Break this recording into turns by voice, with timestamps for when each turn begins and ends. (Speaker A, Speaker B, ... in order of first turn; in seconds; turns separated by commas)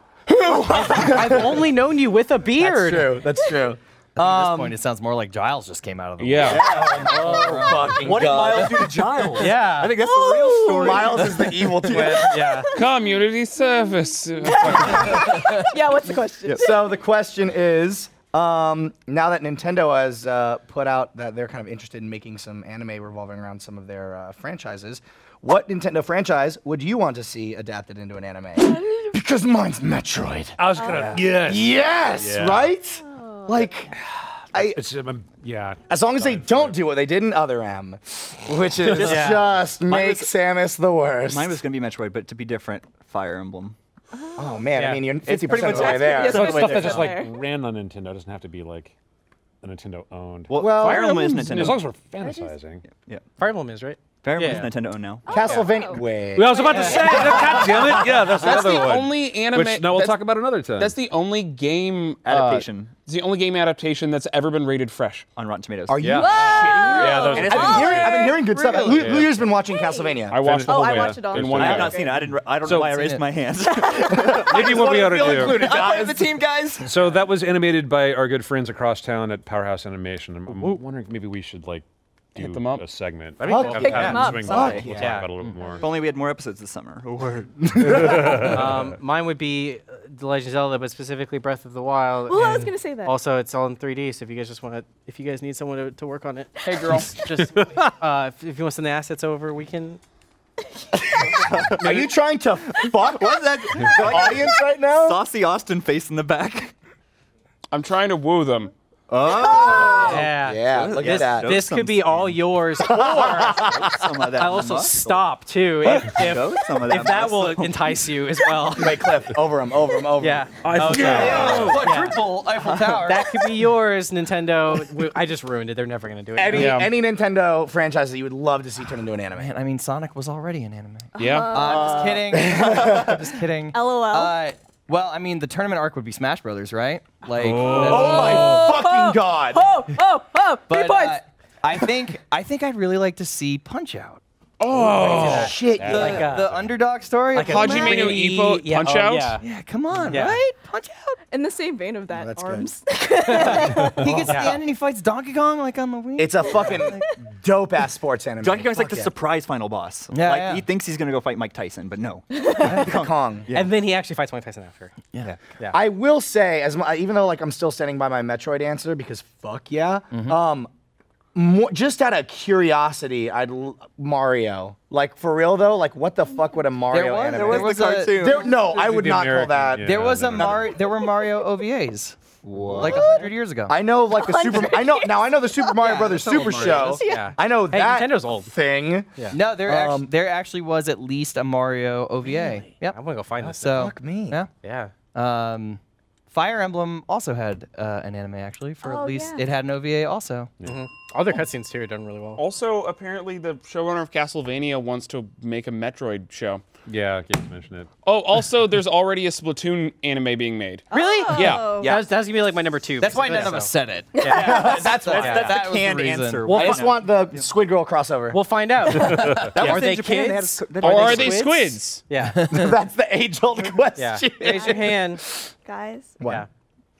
Speaker A: 0.3-1.7, Speaker B: 0.7-3.3, Speaker A: 2.6-4.8, Speaker C: 4.2-8.1, Speaker D: 6.2-6.7, Speaker E: 6.5-11.5, Speaker A: 6.5-9.2, Speaker B: 9.3-10.0, Speaker F: 9.9-17.0, Speaker A: 10.8-12.4, Speaker B: 12.0-12.7, Speaker D: 12.8-15.3, Speaker A: 16.5-33.9, Speaker F: 28.7-29.1, Speaker G: 30.6-32.7, Speaker F: 30.7-31.2, Speaker F: 32.9-33.7, Speaker A: 34.5-34.8, Speaker G: 34.5-36.8, Speaker A: 35.9-41.6, Speaker E: 38.9-40.3, Speaker B: 39.0-39.5, Speaker E: 41.3-43.8, Speaker F: 44.1-44.7, Speaker A: 44.4-46.5, Speaker B: 44.8-45.9, Speaker E: 45.3-47.2, Speaker F: 45.5-47.4, Speaker G: 46.3-48.9, Speaker G: 49.6-52.8, Speaker E: 50.5-51.9, Speaker A: 50.6-51.5, Speaker F: 52.2-52.5, Speaker E: 52.9-53.2, Speaker B: 53.4-54.7, Speaker E: 54.2-55.3, Speaker F: 55.3-58.2, Speaker A: 55.3-58.6, Speaker G: 56.4-60.9, Speaker D: 58.2-62.4, Speaker E: 62.2-62.9, Speaker B: 62.4-62.6, Speaker D: 63.1-65.3, Speaker E: 65.4-68.3, Speaker A: 65.9-70.6, Speaker G: 66.0-68.1, Speaker F: 66.1-72.3, Speaker G: 68.9-69.3, Speaker G: 70.3-72.0, Speaker D: 70.3-71.1, Speaker E: 71.2-76.9, Speaker G: 72.6-73.0, Speaker C: 72.9-73.2, Speaker F: 73.7-74.4, Speaker A: 74.1-76.4, Speaker G: 74.5-75.8, Speaker G: 76.8-85.8, Speaker B: 80.5-80.8, Speaker D: 82.4-82.8, Speaker B: 83.4-85.3, Speaker A: 83.4-85.2, Speaker F: 83.6-84.8, Speaker E: 84.2-88.2, Speaker A: 87.8-88.5, Speaker G: 87.8-88.9, Speaker B: 88.3-100.0, Speaker F: 92.3-93.2, Speaker F: 96.6-97.2, Speaker G: 97.0-97.7, Speaker A: 101.2-105.2, Speaker E: 101.4-102.1, Speaker E: 103.0-106.7, Speaker D: 107.7-108.7, Speaker E: 109.1-112.4, Speaker A: 109.2-111.6, Speaker B: 110.0-119.2, Speaker A: 112.8-114.1, Speaker E: 113.3-115.3, Speaker E: 115.8-117.8, Speaker A: 118.7-120.5, Speaker B: 120.2-122.2, Speaker D: 120.6-121.7, Speaker C: 120.8-123.3, Speaker G: 120.9-121.8, Speaker A: 121.0-121.8, Speaker E: 121.4-121.9, Speaker E: 122.6-123.0, Speaker B: 122.9-126.8, Speaker A: 126.4-129.5, Speaker D: 126.5-126.9, Speaker C: 129.4-138.6, Speaker F: 131.2-132.3, Speaker D: 131.2-131.6, Speaker E: 131.6-133.2, Speaker A: 132.3-133.3, Speaker F: 133.7-134.4, Speaker G: 137.4-138.4, Speaker D: 137.5-137.9, Speaker A: 137.6-139.7, Speaker F: 137.7-141.2, Speaker C: 140.7-144.2, Speaker D: 144.6-145.6, Speaker C: 144.7-148.1, Speaker A: 145.0-146.3, Speaker B: 145.1-146.5, Speaker G: 145.3-146.7, Speaker B: 147.3-149.4, Speaker D: 147.4-149.4, Speaker C: 149.4-151.2, Speaker B: 150.1-150.4, Speaker F: 151.3-154.3, Speaker A: 152.1-152.7, Speaker B: 153.3-154.6, Speaker C: 154.0-157.0, Speaker A: 154.0-154.5, Speaker A: 156.2-159.1, Speaker F: 156.8-157.1, Speaker E: 158.4-163.8, Speaker C: 160.1-160.6, Speaker F: 162.3-162.8, Speaker A: 162.7-163.5, Speaker B: 163.5-164.9, Speaker A: 165.7-170.7, Speaker C: 170.1-170.4, Speaker A: 171.3-180.0, Speaker C: 176.9-178.4, Speaker E: 177.3-178.5, Speaker G: 178.5-180.7, Speaker C: 179.8-182.2, Speaker E: 180.3-180.8, Speaker E: 182.4-183.1, Speaker C: 182.8-183.8, Speaker F: 182.8-183.2, Speaker A: 183.7-190.1, Speaker F: 184.1-187.3, Speaker B: 187.1-188.5, Speaker C: 189.3-194.5, Speaker B: 192.8-193.9, Speaker A: 193.7-194.4, Speaker B: 194.6-194.9, Speaker C: 195.1-195.8, Speaker C: 196.3-200.5, Speaker F: 198.8-199.5, Speaker B: 200.6-202.4, Speaker D: 202.4-206.7, Speaker G: 206.9-207.9, Speaker D: 208.1-211.7, Speaker F: 210.9-212.0, Speaker B: 210.9-215.5, Speaker A: 211.7-212.1, Speaker C: 213.0-216.7, Speaker F: 214.2-214.9, Speaker E: 214.2-217.5, Speaker A: 214.3-215.7, Speaker B: 216.5-217.0, Speaker A: 216.5-218.4, Speaker B: 218.3-222.6, Speaker E: 219.3-221.4, Speaker D: 220.8-222.0, Speaker C: 222.4-222.7, Speaker A: 222.5-225.2, Speaker B: 224.0-225.2, Speaker F: 224.5-225.0, Speaker F: 225.6-226.2, Speaker A: 226.2-226.4